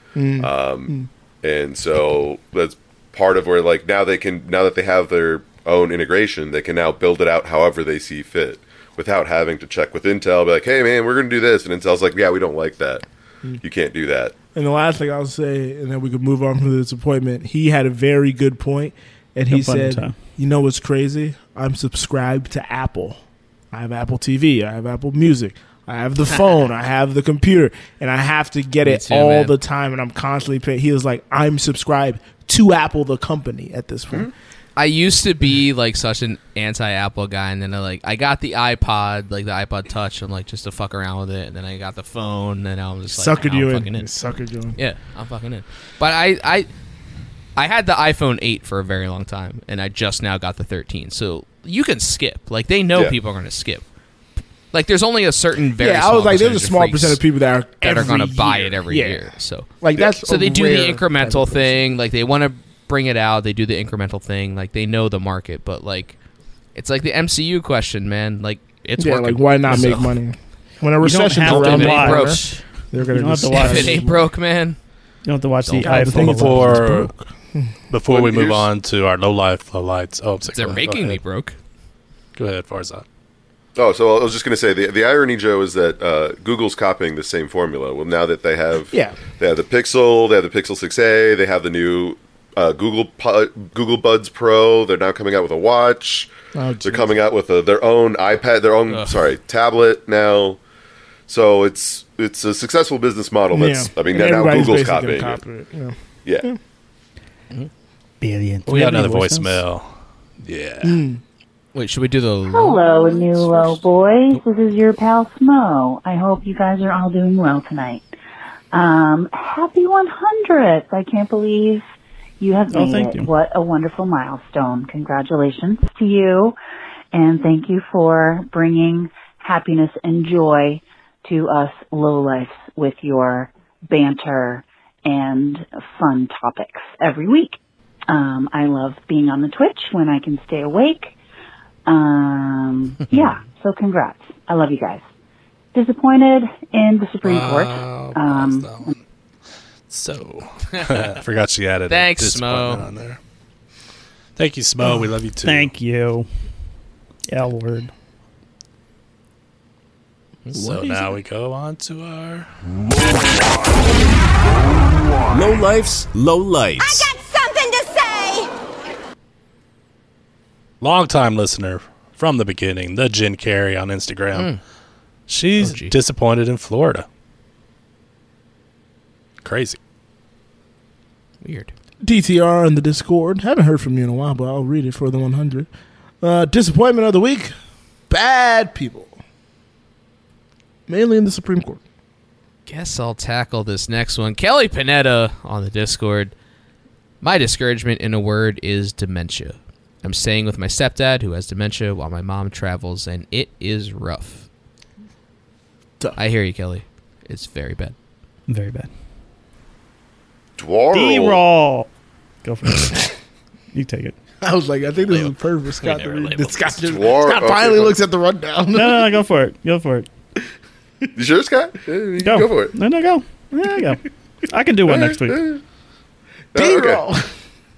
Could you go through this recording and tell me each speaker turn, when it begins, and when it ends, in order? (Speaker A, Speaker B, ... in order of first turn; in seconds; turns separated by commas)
Speaker A: 0.1-1.1, Speaker B: 0.4-13.0, Speaker B: 13.6-14.3, Speaker A: 14.5-23.2, Speaker C: 19.5-20.1, Speaker A: 23.7-34.3, Speaker D: 28.8-29.5, Speaker D: 34.8-44.1, Speaker A: 43.1-44.8, Speaker D: 44.7-46.7, Speaker D: 47.5-53.8, Speaker D: 54.7-57.2, Speaker A: 55.8-61.9, Speaker D: 57.8-66.2, Speaker D: 66.7-70.1, Speaker A: 69.0-74.2, Speaker C: 71.0-74.0, Speaker D: 71.4-72.4, Speaker D: 73.5-74.8, Speaker C: 75.2-77.0, Speaker D: 75.6-76.1, Speaker A: 75.8-77.7, Speaker E: 76.1-77.1, Speaker E: 77.9-81.2, Speaker B: 78.1-78.7, Speaker D: 80.5-81.5, Speaker E: 82.3-83.0, Speaker B: 83.8-96.3, Speaker A: 88.9-89.2, Speaker A: 96.5-97.2, Speaker B: 96.8-100.6, Speaker D: 98.9-99.2, Speaker B: 101.3-105.4, Speaker A: 103.5-106.6, Speaker C: 108.2-109.6, Speaker E: 108.7-109.9, Speaker E: 110.4-111.0, Speaker A: 110.8-111.2, Speaker D: 111.7-113.8, Speaker F: 112.5-118.0, Speaker F: 118.7-121.8, Speaker F: 122.4-126.5, Speaker C: 122.7-123.3, Speaker F: 127.1-137.6, Speaker F: 138.1-141.1, Speaker F: 141.8-145.0, Speaker F: 145.7-148.9, Speaker E: 147.2-148.9, Speaker E: 149.9-153.2, Speaker D: 150.7-151.1, Speaker D: 151.9-152.8, Speaker E: 154.3-155.7, Speaker C: 155.4-156.3, Speaker C: 157.3-157.9, Speaker D: 160.5-160.8, Speaker E: 160.5-162.5, Speaker A: 160.5-161.1, Speaker G: 165.3-167.2, Speaker E: 170.8-174.5, Speaker D: 174.3-174.6, Speaker E: 175.3-177.1, Speaker D: 175.6-175.9, Speaker E: 179.4-179.8, Speaker D: 181.4-181.7, Speaker A: 182.0-185.7, Speaker A: 186.2-187.5, Speaker A: 188.1-189.2, Speaker A: 190.9-191.8, Speaker D: 192.7-196.3, Speaker D: 197.2-204.5, Speaker D: 206.2-207.9, Speaker C: 208.5-208.9, Speaker B: 210.6-211.4, Speaker C: 210.9-211.9, Speaker C: 212.4-213.1, Speaker C: 213.7-214.1, Speaker A: 214.4-219.2, Speaker D: 215.1-216.9, Speaker B: 216.8-217.9, Speaker C: 218.7-220.1, Speaker B: 221.1-222.8, Speaker C: 222.2-225.5, Speaker B: 224.8-225.6, Speaker B: 226.5-227.0, Speaker A: 226.5-227.3